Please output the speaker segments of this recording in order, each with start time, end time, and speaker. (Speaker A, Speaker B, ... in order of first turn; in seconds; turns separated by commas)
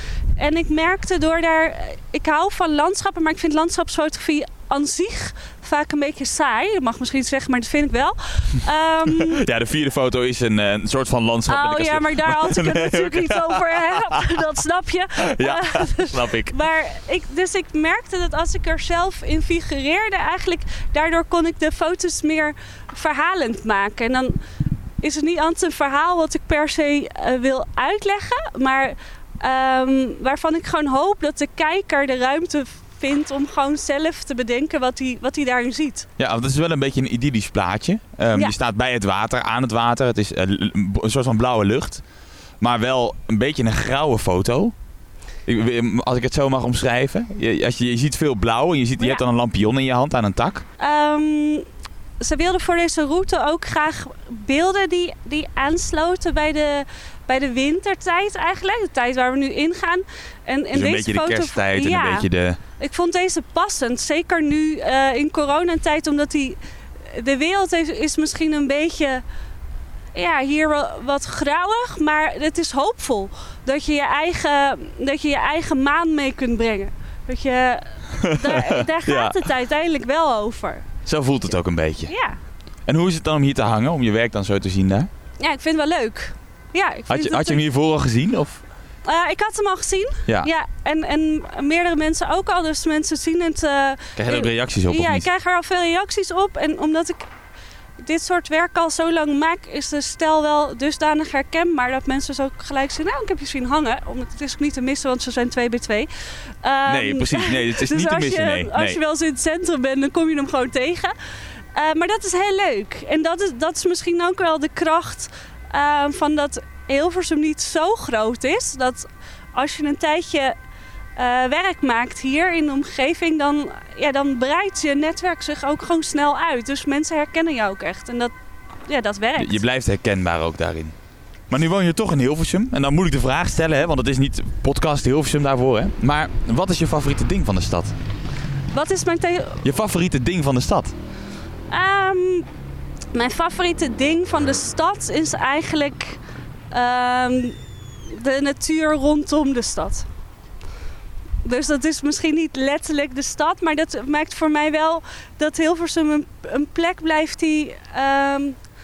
Speaker A: 0.4-9.4, Speaker B: 9.2-14.3, Speaker A: 11.5-24.4, Speaker B: 15.2-16.5, Speaker A: 25.0-36.1, Speaker B: 36.2-42.0, Speaker B: 42.6-44.7, Speaker B: 45.5-50.6, Speaker A: 50.8-51.6, Speaker A: 52.2-62.3, Speaker B: 60.7-62.6, Speaker A: 62.8-66.6, Speaker A: 67.1-69.2, Speaker A: 70.2-80.8, Speaker B: 78.2-79.4, Speaker B: 81.1-82.1, Speaker A: 82.1-82.4, Speaker B: 82.9-85.1, Speaker A: 85.4-87.6, Speaker B: 87.1-88.6, Speaker A: 89.0-97.2, Speaker B: 94.2-95.3, Speaker A: 98.0-106.1, Speaker A: 106.6-111.1, Speaker B: 106.9-109.0, Speaker A: 111.7-120.5, Speaker A: 121.2-128.3, Speaker A: 128.9-129.6, Speaker B: 129.4-130.9, Speaker B: 131.5-138.0, Speaker A: 138.7-139.6, Speaker B: 139.6-140.9, Speaker A: 141.7-142.5, Speaker A: 143.1-146.2, Speaker A: 146.7-150.1, Speaker A: 151.4-158.6